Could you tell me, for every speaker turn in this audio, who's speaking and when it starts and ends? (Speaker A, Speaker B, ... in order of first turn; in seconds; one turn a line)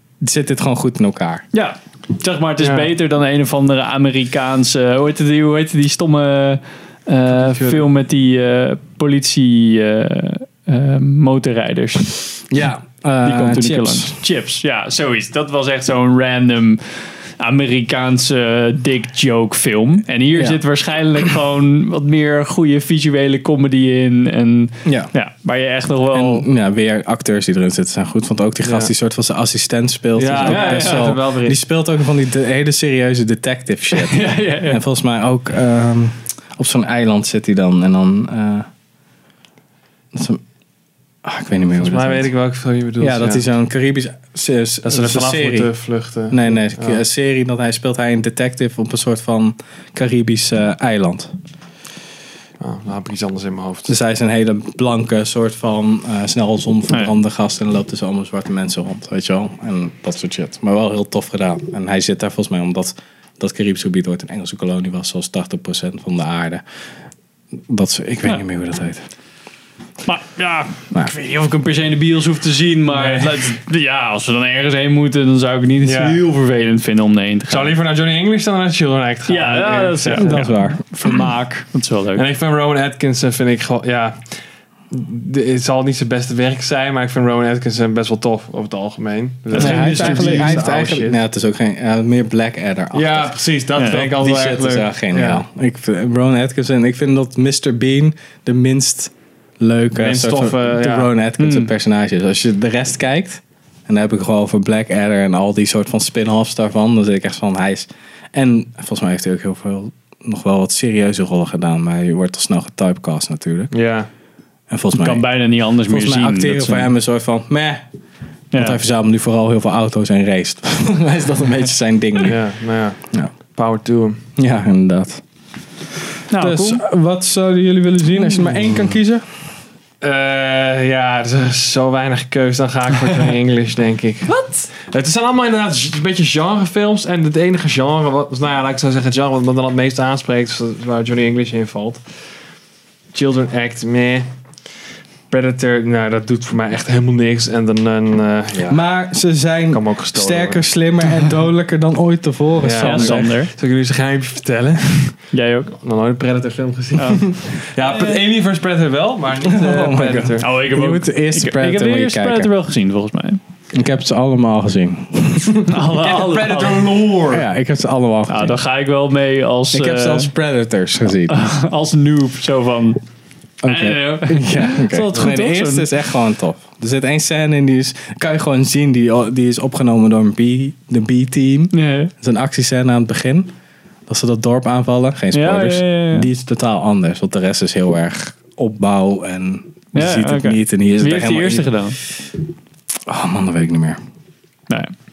Speaker A: 0.2-1.4
Speaker B: 1.5-12.2
Speaker C: 2.6-2.9
Speaker C: 7.3-7.8
Speaker A: 12.5-14.2
Speaker B: 13.2-16.8
Speaker B: 17.4-26.5
Speaker A: 20.4-20.6
Speaker A: 24.8-25.1
Speaker A: 26.1-38.7
Speaker C: 28.6-28.9
Speaker C: 30.1-31.6
Speaker B: 30.4-31.2
Speaker B: 33.9-34.8
Speaker A: 40.1-40.4
Speaker A: 41.2-42.3
Speaker C: 41.8-43.4
Speaker A: 43.0-45.7
Speaker C: 44.9-47.0
Speaker A: 46.3-51.3
Speaker C: 52.6-53.9
Speaker A: 53.9-66.6
Speaker A: 67.7-69.0
Speaker B: 70.0-77.7
Speaker C: 72.9-73.5
Speaker C: 75.8-76.2
Speaker C: 77.5-80.5
Speaker B: 79.3-82.2
Speaker A: 80.1-80.8
Speaker C: 82.1-84.3
Speaker C: 84.9-91.2
Speaker B: 89.5-90.6
Speaker A: 89.5-113.7
Speaker C: 92.9-95.4
Speaker B: 93.8-94.1
Speaker C: 99.9-101.1
Speaker B: 101.4-101.7
Speaker C: 113.7-114.1
Speaker A: 114.7-117.8
Speaker B: 114.9-116.9
Speaker B: 118.5-118.8
Speaker A: 118.5-122.4
Speaker C: 122.2-124.2
Speaker A: 124.3-125.2
Speaker B: 126.3-126.8
Speaker A: 126.3-129.2
Speaker C: 130.0-142.0
Speaker B: 134.3-134.7
Speaker C: 143.1-144.3
Speaker C: 145.3-148.8
Speaker A: 148.6-153.3
Speaker C: 149.7-150.7
Speaker C: 152.6-160.5
Speaker B: 152.8-153.5
Speaker B: 155.3-155.7
Speaker B: 156.9-158.2
Speaker A: 159.4-162.5
Speaker B: 160.4-163.4
Speaker A: 163.7-165.7
Speaker B: 165.7-166.9
Speaker C: 165.9-167.4
Speaker A: 167.3-168.6
Speaker B: 168.3-170.3
Speaker A: 169.7-171.4
Speaker B: 171.3-173.0
Speaker A: 173.6-183.5
Speaker B: 173.7-175.9
Speaker B: 181.7-182.1
Speaker A: 184.1-191.7
Speaker B: 185.3-186.3
Speaker B: 189.9-192.0
Speaker A: 193.1-194.0